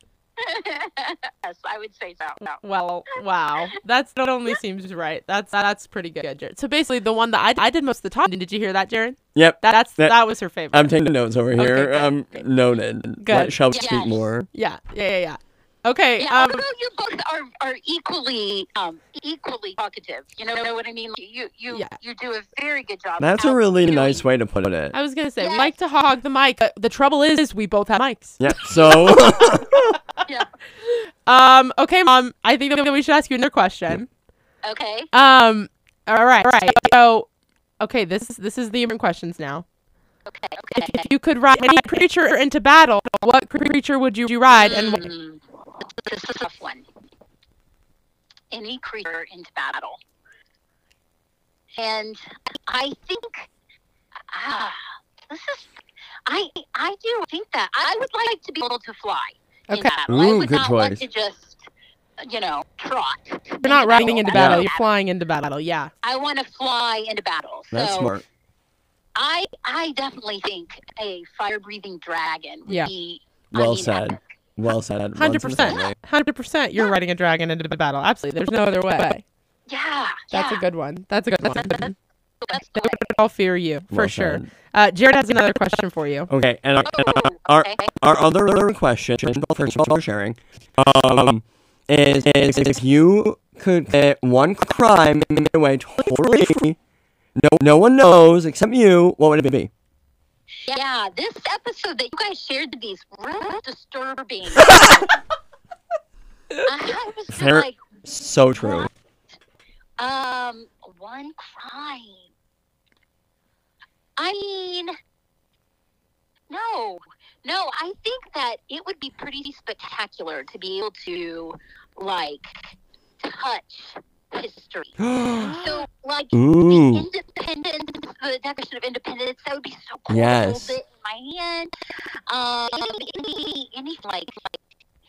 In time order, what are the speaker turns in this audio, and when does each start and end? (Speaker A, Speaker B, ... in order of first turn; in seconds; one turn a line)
Speaker A: 0.4-2.6
Speaker B: 2.6-11.0
Speaker C: 9.3-10.2
Speaker C: 10.7-14.5
Speaker B: 11.6-12.4
Speaker B: 13.2-13.6
Speaker A: 13.7-14.3
Speaker B: 14.5-16.6
Speaker A: 16.2-24.2
Speaker B: 21.7-22.0
Speaker C: 23.2-24.9
Speaker B: 24.9-29.9
Speaker A: 25.4-25.7
Speaker C: 28.4-30.0
Speaker B: 30.8-34.1
Speaker A: 34.6-35.1
Speaker B: 35.1-37.3
Speaker B: 37.8-39.6
Speaker A: 40.3-41.1
Speaker B: 40.8-45.0
Speaker A: 44.5-46.9
Speaker A: 48.5-50.0
Speaker A: 51.8-53.5
Speaker A: 54.3-55.7
Speaker A: 56.3-61.6
Speaker C: 60.1-61.0
Speaker A: 62.2-64.8
Speaker B: 63.6-65.9
Speaker C: 64.3-64.7
Speaker A: 66.0-68.1
Speaker C: 67.7-68.2
Speaker A: 69.2-74.2
Speaker C: 73.5-76.0
Speaker B: 75.2-79.2
Speaker A: 79.7-80.6
Speaker B: 80.3-82.0
Speaker A: 81.5-81.9
Speaker A: 82.4-83.1
Speaker B: 82.5-86.3
Speaker C: 83.9-84.5
Speaker C: 86.3-96.8
Speaker A: 86.8-87.9
Speaker C: 97.4-99.7
Speaker A: 100.7-105.2
Speaker A: 106.6-107.8
Speaker C: 107.3-108.9
Speaker A: 108.6-108.9
Speaker A: 110.0-112.3
Speaker A: 114.2-114.9
Speaker A: 116.5-131.7
Speaker C: 125.0-125.6
Speaker B: 125.4-125.8
Speaker C: 126.3-127.1
Speaker C: 130.1-130.8
Speaker A: 132.3-134.6